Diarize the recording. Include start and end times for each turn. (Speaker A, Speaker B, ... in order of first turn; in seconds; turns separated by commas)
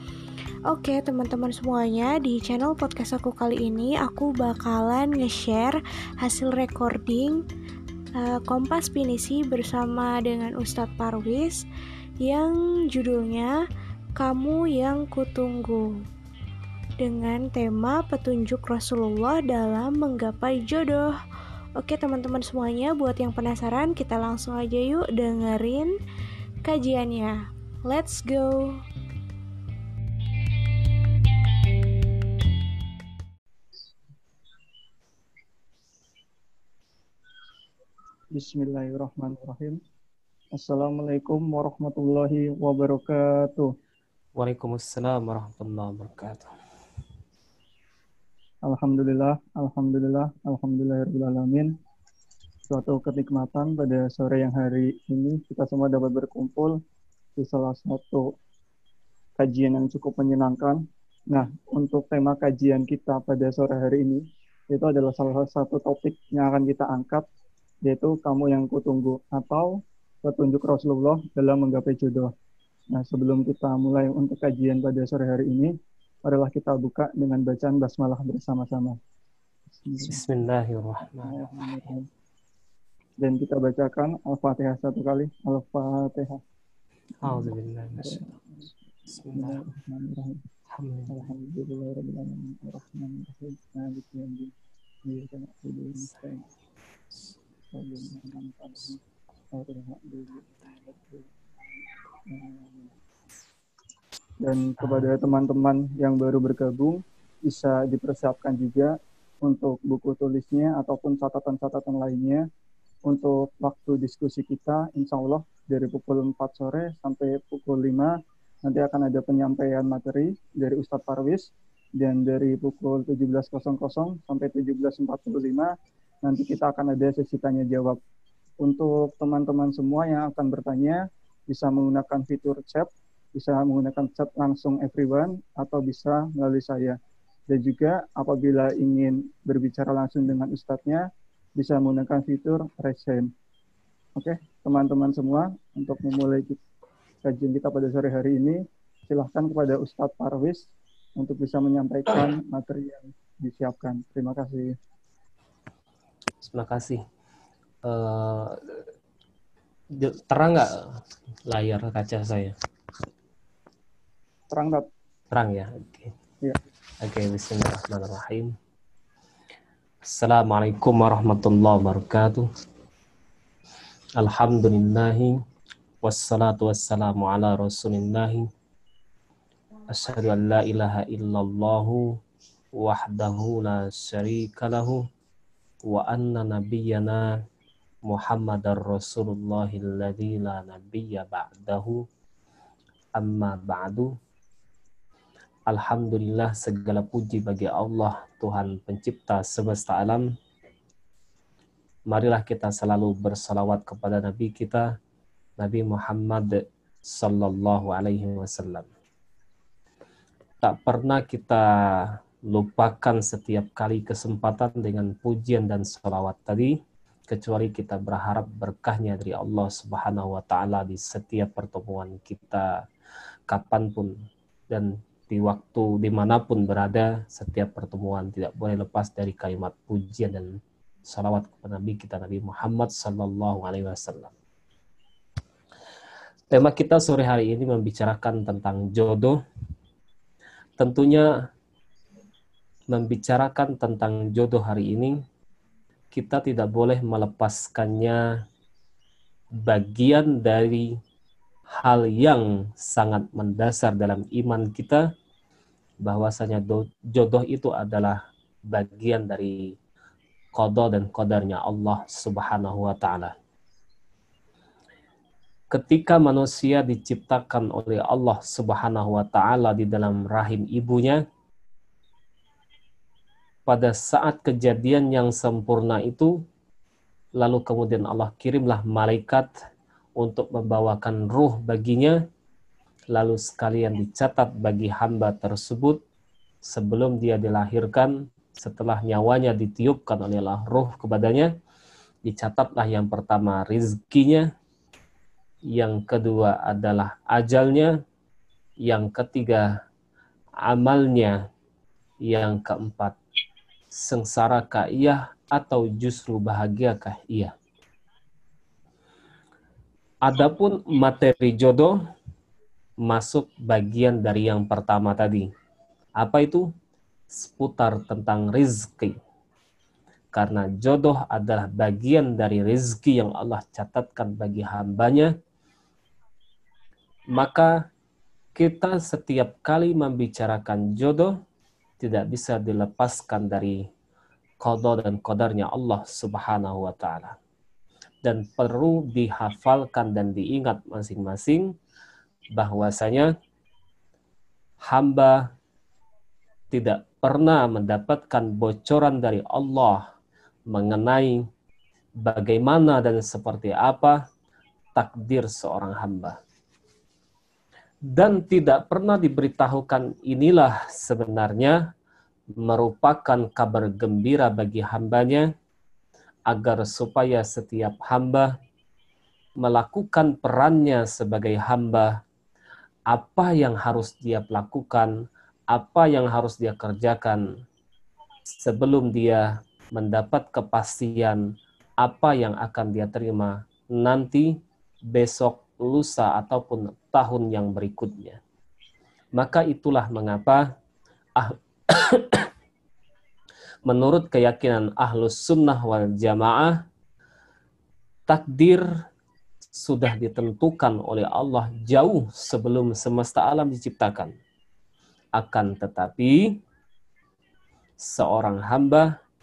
Speaker A: 0.7-7.4, Speaker A: 8.1-11.6, Speaker A: 12.2-13.6, Speaker A: 14.2-16.0, Speaker A: 17.0-21.1, Speaker A: 21.8-25.9, Speaker A: 26.6-28.8, Speaker B: 38.3-39.8, Speaker B: 40.5-43.7, Speaker C: 44.4-46.5, Speaker B: 48.6-51.7, Speaker B: 52.7-56.7, Speaker B: 57.4-58.3, Speaker B: 59.4-67.2, Speaker B: 67.8-72.3, Speaker B: 72.9-75.7, Speaker B: 76.2-79.0, Speaker B: 79.8-80.1, Speaker C: 80.0-81.5, Speaker B: 81.2-82.1, Speaker B: 83.2-86.4, Speaker C: 87.2-88.3, Speaker C: 89.1-89.6, Speaker B: 89.3-90.4, Speaker C: 90.7-91.3, Speaker B: 91.1-96.4, Speaker B: 97.7-99.0, Speaker B: 99.5-101.3, Speaker B: 102.2-102.9, Speaker B: 104.4-112.4, Speaker C: 104.8-105.1, Speaker B: 113.1-118.1, Speaker B: 118.6-125.7, Speaker B: 126.2-128.0, Speaker B: 128.6-137.0, Speaker B: 137.5-143.3, Speaker B: 144.2-146.6, Speaker B: 147.2-150.7, Speaker B: 151.2-154.7, Speaker C: 152.1-152.3, Speaker C: 156.4-157.0, Speaker C: 157.8-158.6, Speaker C: 159.9-160.9, Speaker C: 161.4-162.5, Speaker B: 164.5-164.8, Speaker C: 165.3-166.1, Speaker C: 167.0-168.5, Speaker C: 170.0-172.5, Speaker C: 174.2-175.4, Speaker C: 176.0-178.4, Speaker C: 179.9-182.1, Speaker C: 182.8-185.0, Speaker C: 185.8-187.3, Speaker C: 188.1-192.0, Speaker C: 193.2-194.1, Speaker C: 195.7-200.3, Speaker C: 202.1-204.9, Speaker C: 205.6-208.9, Speaker C: 210.6-216.8, Speaker C: 217.3-222.8, Speaker C: 223.5-224.1, Speaker C: 224.7-234.3, Speaker C: 236.5-239.4, Speaker C: 240.8-241.3, Speaker C: 242.9-245.2, Speaker C: 246.1-248.2, Speaker C: 249.6-250.9, Speaker C: 251.8-255.1, Speaker C: 256.0-258.2, Speaker C: 258.7-259.7, Speaker C: 260.6-263.3, Speaker C: 265.7-271.2, Speaker C: 273.7-276.4, Speaker C: 277.4-279.5, Speaker C: 280.2-282.2, Speaker C: 283.1-286.0, Speaker C: 286.6-291.5, Speaker C: 292.2-294.5, Speaker C: 295.7-298.0, Speaker C: 298.8-299.7, Speaker C: 300.6-301.4, Speaker C: 302.2-303.1, Speaker C: 303.9-307.5, Speaker C: 310.2-312.0, Speaker C: 313.0-315.5, Speaker C: 316.2-316.7, Speaker C: 317.3-319.1, Speaker C: 320.3-325.3, Speaker C: 327.3-327.8, Speaker C: 328.5-331.3, Speaker C: 332.0-333.8, Speaker C: 334.6-337.4, Speaker C: 338.2-341.7, Speaker C: 342.6-343.3, Speaker C: 344.9-345.5, Speaker C: 346.7-350.1, Speaker C: 350.7-351.5, Speaker C: 352.2-354.2, Speaker C: 354.9-356.4, Speaker C: 358.1-361.9, Speaker C: 362.6-365.5, Speaker C: 366.5-368.5, Speaker C: 369.6-372.2, Speaker C: 373.1-375.1, Speaker C: 375.7-377.4, Speaker C: 378.5-381.4, Speaker C: 382.0-384.6, Speaker C: 385.1-388.4, Speaker C: 389.4-390.7, Speaker C: 391.4-392.5, Speaker C: 393.9-396.8, Speaker C: 398.3-398.9, Speaker C: 399.8-404.3, Speaker C: 405.4-406.6, Speaker C: 408.0-409.1